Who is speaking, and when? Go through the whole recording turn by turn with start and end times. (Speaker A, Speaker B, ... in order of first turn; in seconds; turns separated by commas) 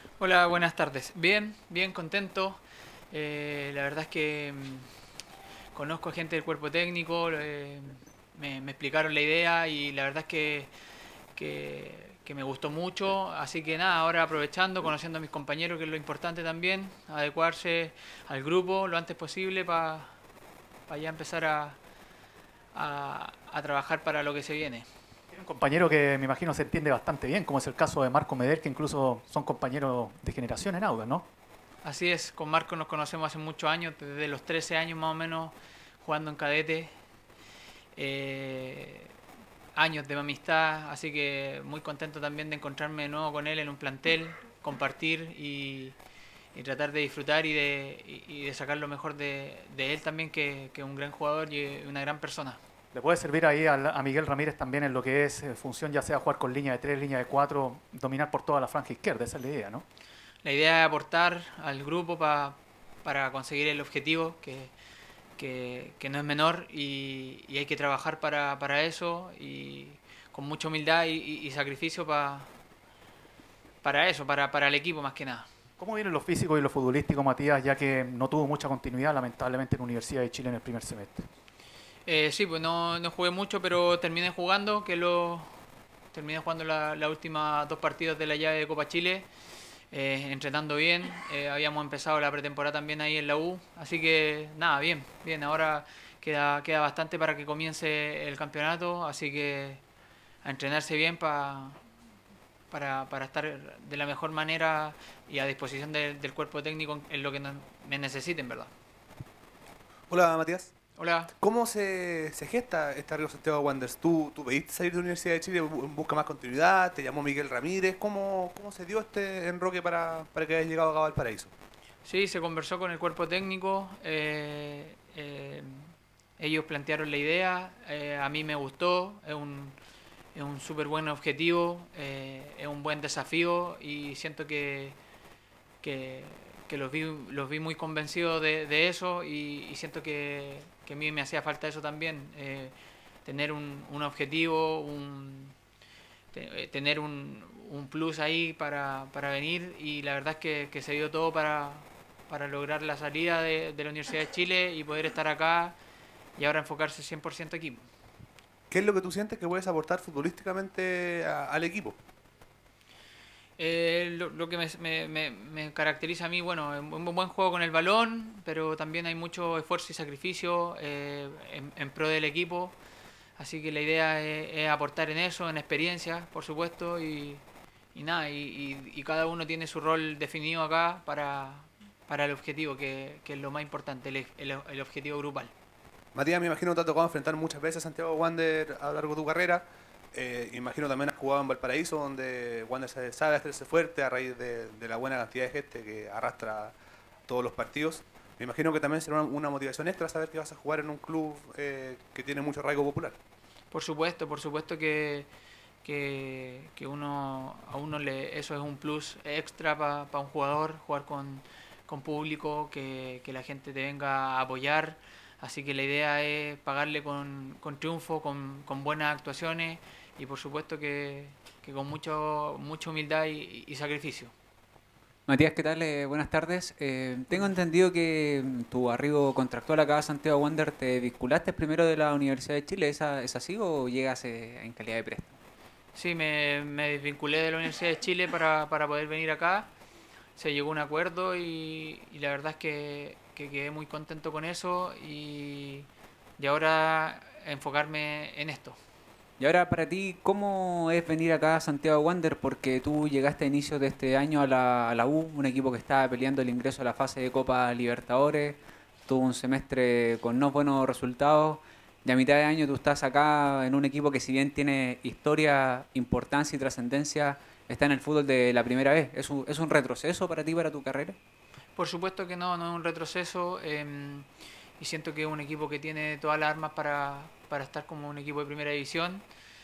Speaker A: 0.2-2.6, Speaker A: 3.1-4.9, Speaker A: 5.7-10.7, Speaker A: 11.3-20.1, Speaker A: 20.9-21.8, Speaker A: 22.7-24.9, Speaker B: 25.3-31.3, Speaker A: 31.8-36.9, Speaker A: 38.0-39.1, Speaker A: 39.8-46.0, Speaker A: 46.5-52.6, Speaker B: 52.9-59.9, Speaker A: 60.4-64.7, Speaker A: 65.4-72.5, Speaker A: 73.8-75.5, Speaker B: 75.8-81.3, Speaker A: 82.1-85.5, Speaker A: 86.1-89.3, Speaker A: 89.9-99.8, Speaker A: 100.4-101.8, Speaker A: 102.7-108.7, Speaker C: 110.1-110.7, Speaker A: 111.0-111.3, Speaker C: 111.4-121.5, Speaker A: 122.0-129.8, Speaker A: 130.3-135.0, Speaker A: 135.8-145.6, Speaker A: 146.3-155.8, Speaker A: 156.4-157.8, Speaker C: 158.7-162.0, Speaker A: 163.6-172.8, Speaker A: 173.4-177.4, Speaker A: 177.9-185.5, Speaker C: 186.2-196.8, Speaker C: 197.3-203.2, Speaker A: 203.7-205.3, Speaker A: 205.8-224.3, Speaker D: 225.3-235.4, Speaker A: 235.9-239.7, Speaker A: 240.4-248.8, Speaker D: 249.4-271.2, Speaker A: 271.8-274.3, Speaker A: 274.8-279.2